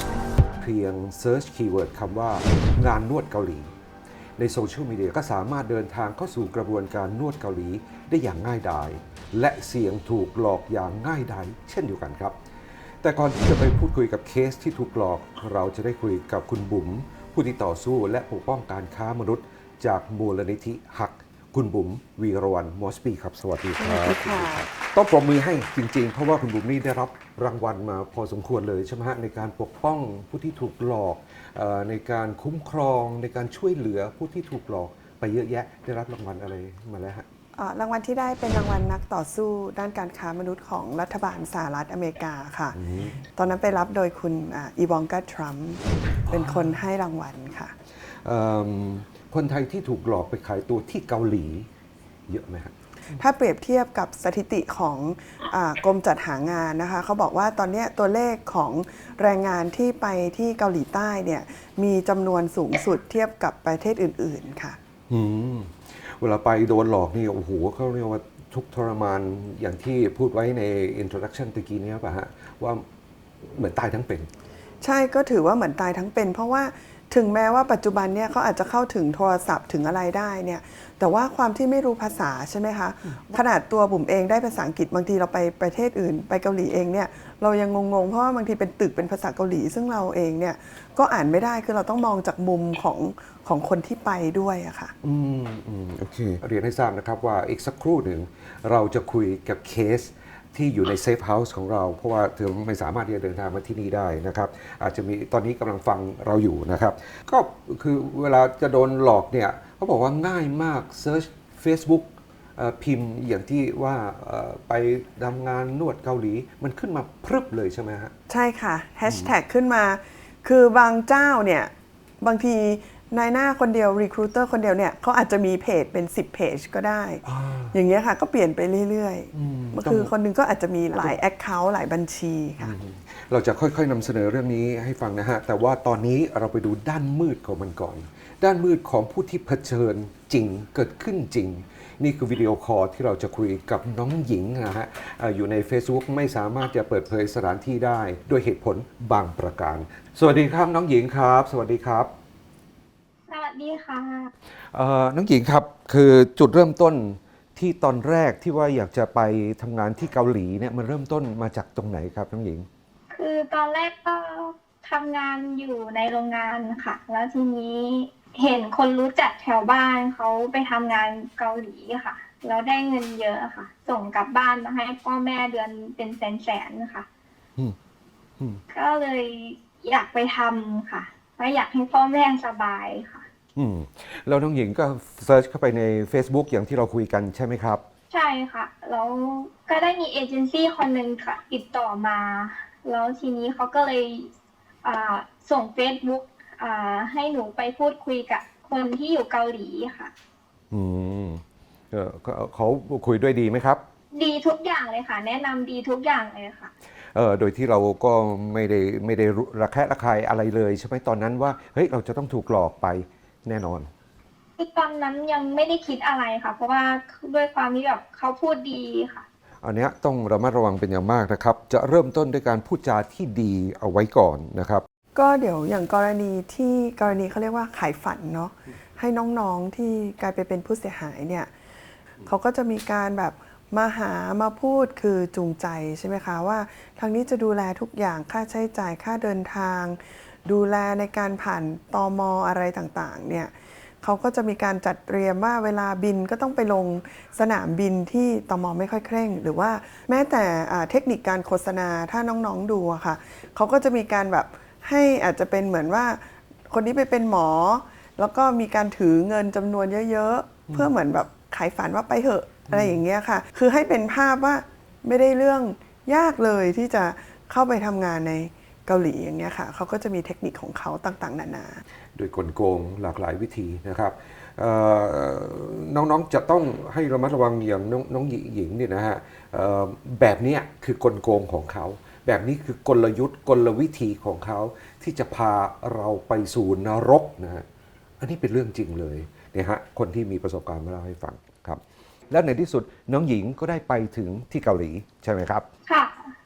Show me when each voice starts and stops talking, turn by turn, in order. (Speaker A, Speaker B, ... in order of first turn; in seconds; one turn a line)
Speaker A: 0.6-3.7
Speaker A: 4.4-12.4
Speaker A: 13.0-37.3
Speaker B: 23.8-24.7
Speaker B: 37.6-42.8
Speaker A: 42.8-43.2
Speaker B: 43.3-47.7
Speaker A: 48.2-51.7
Speaker A: 52.3-52.7
Speaker B: 53.1-64.8
Speaker A: 65.1-72.8
Speaker A: 73.4-74.3
Speaker B: 74.8-94.9
Speaker A: 95.0-118.1
Speaker B: 118.3-132.8
Speaker A: 119.0-119.3
Speaker A: 127.2-127.8
Speaker A: 129.3-130.1
Speaker A: 132.6-152.1
Speaker C: 153.3-154.3
Speaker A: 154.7-162.7
Speaker C: 163.1-177.1
Speaker C: 178.7-183.2
Speaker A: 183.6-187.8
Speaker C: 188.1-194.3
Speaker C: 194.8-200.1
Speaker A: 200.7-203.8
Speaker C: 204.1-206.7
Speaker A: 207.2-213.9
Speaker C: 214.6-219.2
Speaker A: 219.6-224.8
Speaker B: 225.2-231.5
Speaker B: 232.2-271.8
Speaker A: 262.7-263.0
Speaker A: 272.2-287.7
Speaker A: 288.2-295.7
Speaker C: 295.9-296.3